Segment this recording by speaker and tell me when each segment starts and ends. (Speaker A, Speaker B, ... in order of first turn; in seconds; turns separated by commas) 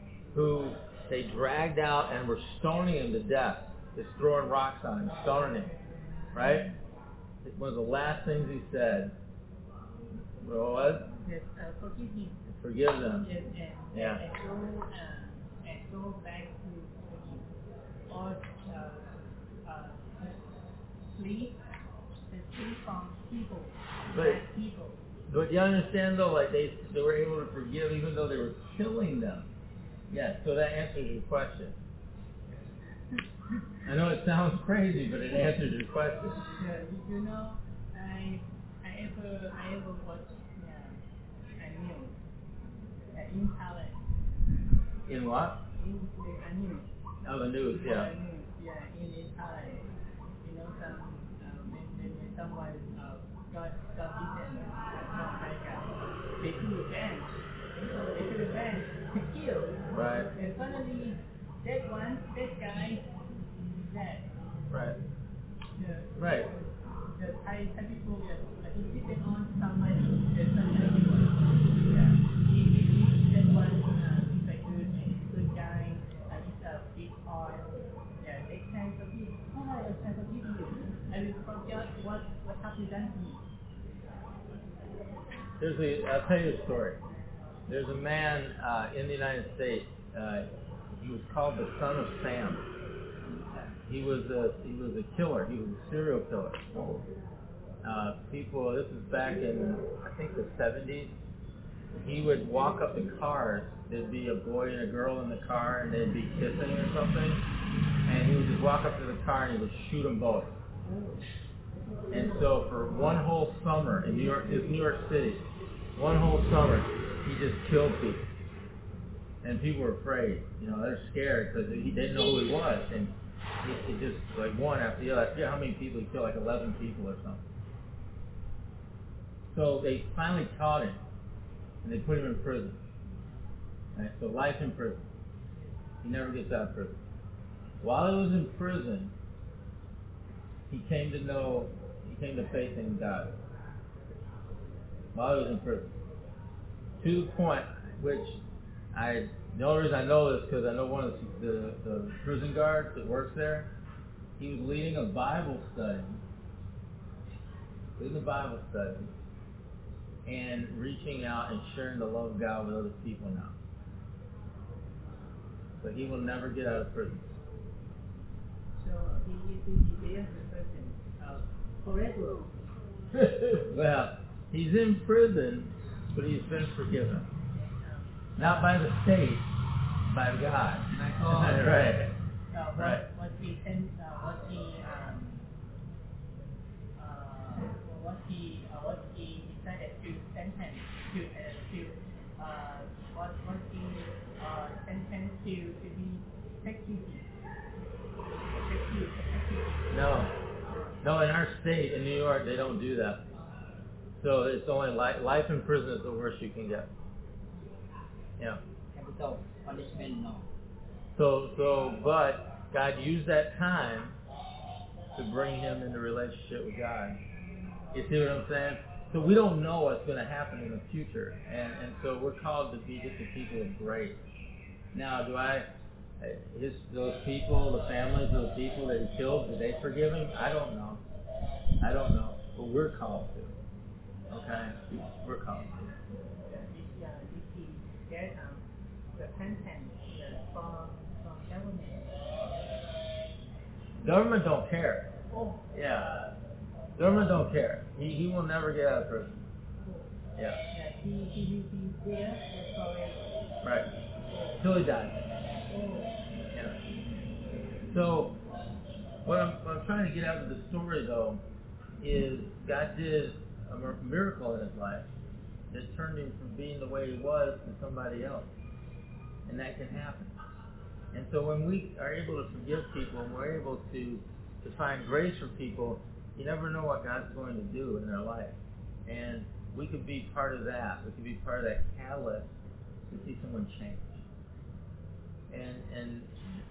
Speaker A: 0.3-5.8, Speaker A: 6.3-6.7, Speaker A: 7.4-9.1, Speaker A: 10.4-11.1, Speaker B: 11.2-12.4, Speaker A: 12.5-13.3, Speaker B: 13.2-17.5, Speaker A: 13.9-14.2, Speaker B: 18.1-19.1, Speaker B: 19.6-20.4, Speaker B: 21.1-21.6, Speaker B: 22.3-25.0, Speaker A: 24.1-24.4, Speaker A: 25.3-29.5, Speaker A: 30.1-31.8, Speaker A: 33.9-36.4, Speaker B: 36.5-41.0, Speaker B: 41.6-42.1, Speaker B: 43.1-44.0, Speaker A: 45.1-45.6, Speaker B: 45.8-46.9, Speaker A: 47.2-48.1, Speaker B: 47.8-49.9, Speaker B: 50.4-57.4, Speaker B: 58.0-59.8, Speaker A: 59.9-60.3, Speaker B: 60.3-63.0, Speaker B: 63.8-64.3, Speaker A: 64.7-65.0, Speaker B: 65.8-77.7, Speaker A: 66.2-66.5, Speaker B: 78.2-83.5, Speaker A: 85.6-87.0, Speaker A: 87.7-92.7, Speaker A: 93.8-96.9, Speaker A: 97.8-101.1, Speaker A: 102.0-107.5, Speaker A: 108.1-110.6, Speaker A: 112.1-118.3, Speaker A: 119.4-127.4, Speaker A: 129.5-131.0, Speaker A: 131.8-132.8, Speaker A: 133.9-135.1, Speaker A: 136.0-137.0, Speaker A: 137.8-139.1, Speaker A: 140.7-143.4, Speaker A: 145.1-145.9, Speaker A: 147.0-148.4, Speaker A: 148.9-153.7, Speaker A: 154.4-156.2, Speaker A: 158.0-159.2, Speaker A: 160.2-163.6, Speaker A: 165.8-167.4, Speaker B: 168.8-172.6, Speaker A: 173.1-177.3, Speaker B: 177.6-178.1, Speaker A: 178.4-179.5, Speaker A: 180.1-182.2, Speaker C: 181.0-181.5, Speaker B: 182.5-185.4, Speaker A: 182.8-183.1, Speaker B: 187.0-197.3, Speaker B: 198.5-200.0, Speaker A: 199.9-200.3, Speaker B: 200.7-201.0, Speaker A: 201.0-203.2, Speaker A: 204.2-206.9, Speaker C: 208.9-210.4, Speaker A: 211.1-214.2, Speaker A: 215.1-217.2, Speaker A: 217.9-224.2, Speaker A: 224.9-225.7, Speaker A: 226.2-231.0, Speaker A: 231.8-233.6, Speaker A: 234.3-235.9, Speaker B: 236.5-238.6, Speaker B: 239.1-242.2, Speaker A: 244.0-245.1, Speaker B: 245.3-246.3, Speaker A: 245.7-246.1, Speaker A: 247.0-249.3, Speaker A: 250.4-250.6, Speaker B: 250.7-253.2, Speaker A: 253.6-253.9, Speaker B: 254.3-254.6, Speaker A: 254.6-255.2, Speaker B: 255.7-256.1, Speaker A: 257.9-258.4, Speaker A: 259.2-261.4, Speaker A: 262.0-265.1, Speaker A: 265.7-268.5, Speaker A: 269.5-270.4, Speaker A: 271.1-282.5, Speaker A: 283.1-284.2, Speaker A: 285.5-286.4